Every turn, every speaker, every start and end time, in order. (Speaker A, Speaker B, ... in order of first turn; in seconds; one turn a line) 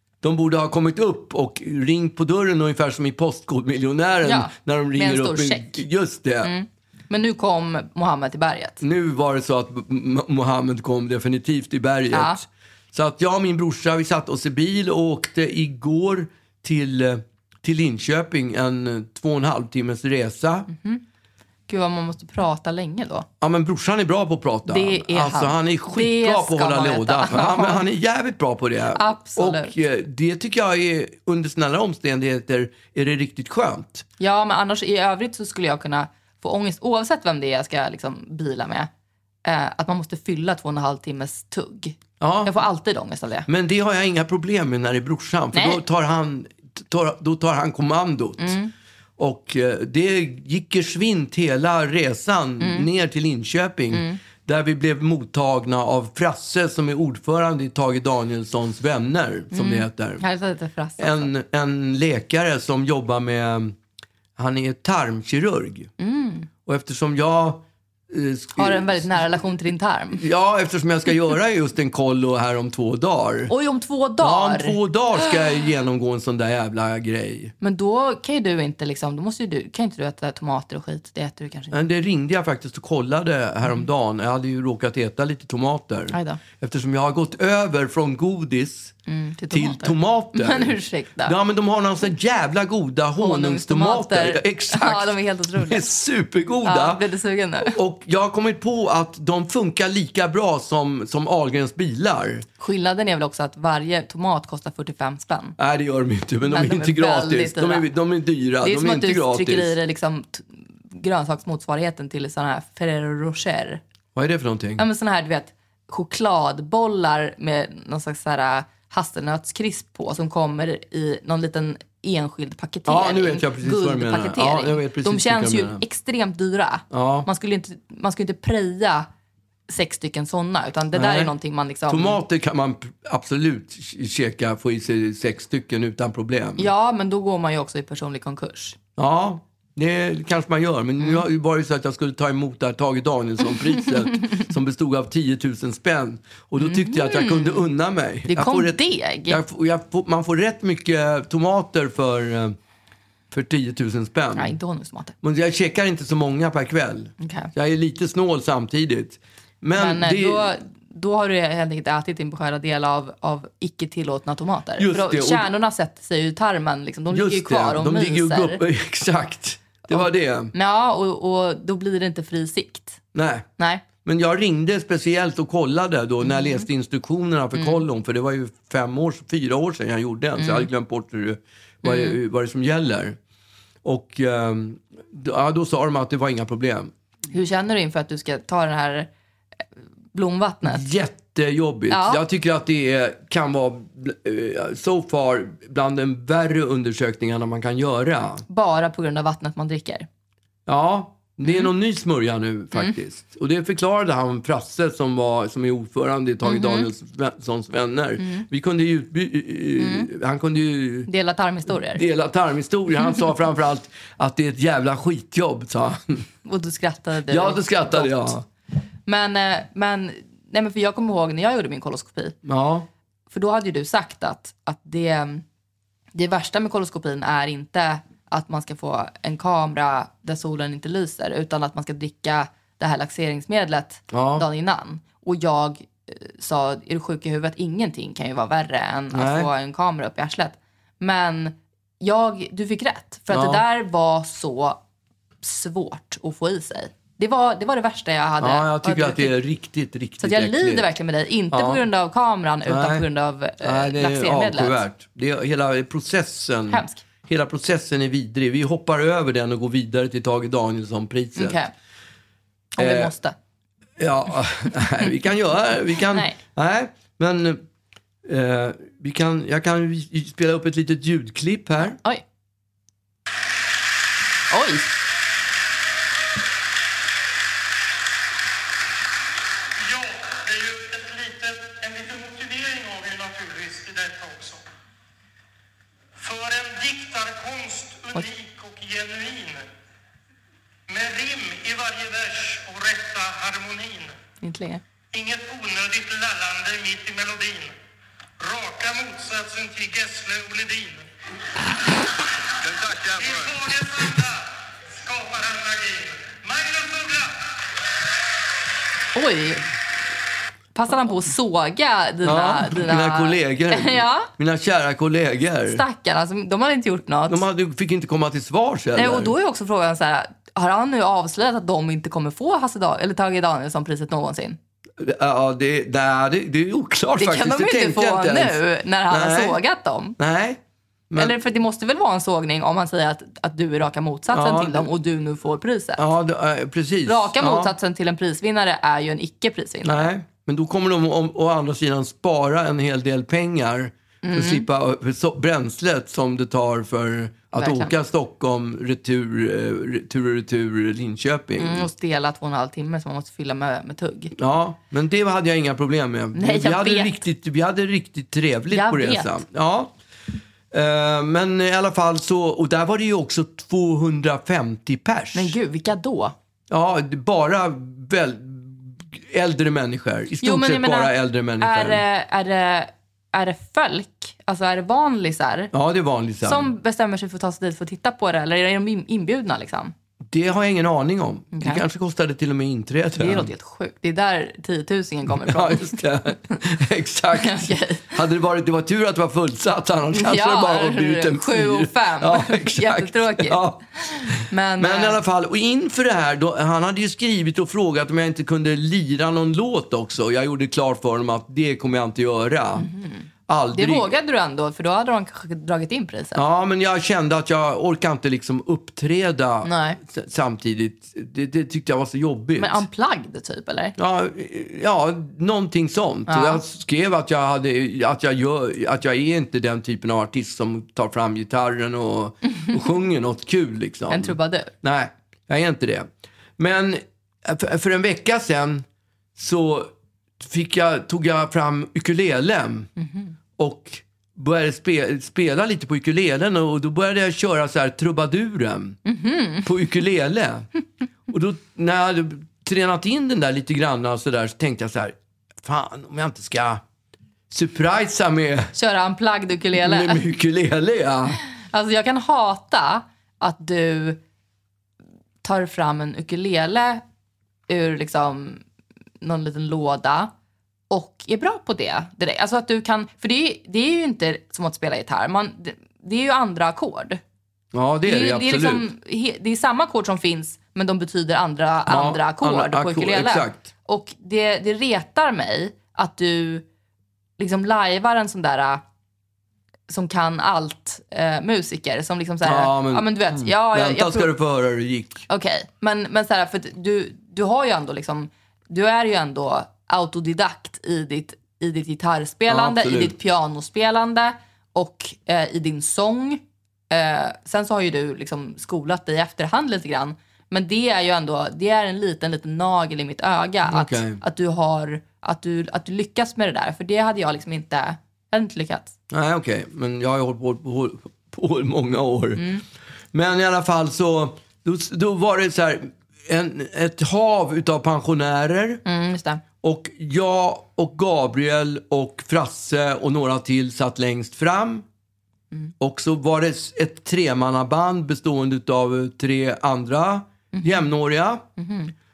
Speaker A: 0.2-6.5
Speaker B: 4.2-5.8
Speaker B: 6.4-8.8
Speaker A: 8.8-20.7
Speaker B: 12.1-12.4
Speaker B: 20.7-21.0
Speaker B: 21.7-23.3
Speaker A: 23.4-34.0
Speaker B: 24.7-27.9
Speaker B: 28.9-29.7
Speaker B: 34.2-38.9
Speaker B: 39.4-43.5
Speaker A: 42.2-42.5
Speaker A: 43.5-48.6
Speaker B: 45.5-45.8
Speaker B: 48.4-48.7
Speaker A: 49.2-60.2
Speaker B: 52.6-52.9
Speaker B: 53.9-54.2
Speaker B: 59.5-61.3
Speaker A: 61.0-63.8
Speaker A: 64.3-65.9
Speaker B: 66.0-66.5
Speaker A: 66.7-69.3
Speaker B: 68.6-70.2
Speaker A: 70.1-73.5
Speaker B: 73.5-74.8
Speaker A: 74.2-77.5
Speaker B: 77.6-81.8
Speaker A: 81.7-89.0
Speaker B: 86.1-86.4
Speaker B: 89.1-91.3
Speaker A: 89.5-97.0
Speaker B: 93.2-95.9
Speaker B: 96.6-97.8
Speaker A: 97.6-102.5
Speaker B: 102.6-105.6
Speaker A: 105.6-109.8
Speaker B: 106.5-107.9
Speaker B: 108.6-113.8
Speaker A: 114.1-114.8
Speaker B: 114.8-129.1
Speaker A: 122.8-125.8
Speaker A: 126.9-127.3
Speaker B: 129.7-132.2
Speaker A: 130.9-131.3
Speaker A: 131.9-136.7
Speaker B: 136.6-138.8
Speaker A: 139.0-152.6
Speaker B: 146.6-147.7
Speaker B: 148.3-149.4
Speaker A: 153.3-154.5
Speaker B: 154.3-155.1
Speaker A: 155.2-160.5
Speaker B: 157.2-157.5
Speaker B: 159.8-168.6
Speaker A: 164.8-165.5
Speaker A: 167.1-170.5
Speaker B: 169.9-173.0
Speaker A: 173.1-173.5
Speaker B: 173.6-173.8
Speaker A: 174.0-183.2
Speaker B: 176.2-176.6
Speaker B: 177.6-177.8
Speaker B: 180.4-180.7
Speaker B: 181.8-182.2
Speaker A: 183.8-186.9
Speaker B: 187.3-189.1
Speaker B: 190.1-190.8
Speaker A: 190.6-198.4
Speaker B: 191.9-192.2
Speaker B: 198.5-200.1
Speaker A: 200.7-211.1
Speaker B: 201.4-201.7
Speaker B: 206.4-206.9
Speaker B: 208.2-208.4
Speaker B: 209.8-210.1
Speaker B: 211.1-212.0
Speaker A: 211.7-216.2
Speaker B: 216.4-218.3
Speaker A: 217.3-218.4
Speaker B: 219.1-222.4
Speaker A: 222.4-222.9
Speaker B: 223.3-225.4
Speaker B: 226.1-244.8
Speaker A: 234.1-234.4
Speaker A: 239.1-239.5
Speaker A: 243.3-243.6
Speaker B: 245.4-249.3
Speaker A: 248.4-250.8
Speaker B: 250.2-254.8
Speaker A: 251.5-251.8
Speaker A: 252.7-253.1
Speaker A: 253.6-261.6
Speaker B: 256.7-257.0
Speaker B: 261.4-261.7
Speaker B: 262.8-263.3
Speaker A: 262.8-263.1
Speaker A: 264.0-267.6
Speaker B: 266.1-266.4
Speaker A: 268.2-272.0
Speaker B: 272.0-272.2
Speaker B: 274.5-274.9
Speaker C: 279.8-284.6
Speaker C: 286.1-289.7
Speaker C: 290.9-294.1
Speaker B: 294.4-294.8
Speaker C: 295.1-297.8
Speaker C: 298.4-301.1
Speaker C: 302.8-307.4
Speaker B: 309.1-309.6
Speaker B: 310.8-314.3
Speaker A: 312.2-315.8
Speaker B: 315.7-317.4
Speaker A: 317.3-319.3
Speaker B: 318.9-324.6
Speaker A: 325.0-329.6
Speaker B: 327.2-330.2
Speaker A: 330.2-331.4
Speaker B: 331.1-336.0
Speaker A: 334.3-334.9
Speaker A: 336.0-337.7
Speaker B: 337.0-340.1
Speaker A: 339.8-351.9
Speaker B: 344.2-344.6
Speaker B: 347.5-347.9
Speaker B: 351.6-354.3
Speaker A: 354.3-359.9
Speaker B: 356.3-357.1
Speaker B: 358.7-359.4
Speaker A: 360.7-365.6
Speaker B: 365.3-366.3
Speaker A: 366.7-372.0
Speaker B: 370.4-375.7
Speaker A: 375.7-376.7
Speaker B: 376.4-379.9
Speaker A: 380.3-383.5
Speaker B: 381.5-381.8
Speaker B: 383.2-386.0
Speaker A: 385.3-402.9
Speaker B: 387.4-388.1
Speaker B: 390.1-395.2
Speaker B: 402.8-406.4
Speaker A: 403.5-404.1
Speaker A: 406.3-412.8
Speaker B: 409.6-410.0
Speaker B: 412.6-413.9
Speaker A: 414.0-432.9
Speaker B: 416.3-416.6
Speaker B: 422.5-422.8
Speaker B: 424.1-424.7
Speaker B: 433.0-433.3
Speaker A: 433.6-439.0
Speaker B: 439.0-439.7
Speaker A: 439.6-440.7
Speaker A: 441.3-446.8
Speaker A: 447.5-448.7
Speaker B: 448.7-450.2
Speaker A: 449.8-451.4
Speaker B: 451.7-454.2
Speaker B: 455.4-457.0
Speaker B: 457.7-458.6
Speaker B: 459.2-460.3
Speaker B: 460.9-467.2
Speaker A: 467.7-468.8
Speaker B: 468.1-476.6
Speaker A: 471.9-473.7
Speaker B: 477.4-478.8
Speaker B: 479.9-484.3
Speaker A: 482.4-485.2
Speaker B: 485.3-508.9
Speaker A: 492.5-493.1
Speaker A: 503.7-504.2
Speaker A: 509.1-512.5
Speaker B: 512.4-512.6
Speaker A: 513.1-518.8
Speaker B: 518.8-519.4
Speaker A: 519.6-524.8
Speaker A: 525.8-531.5
Speaker B: 530.5-530.9
Speaker B: 531.6-531.9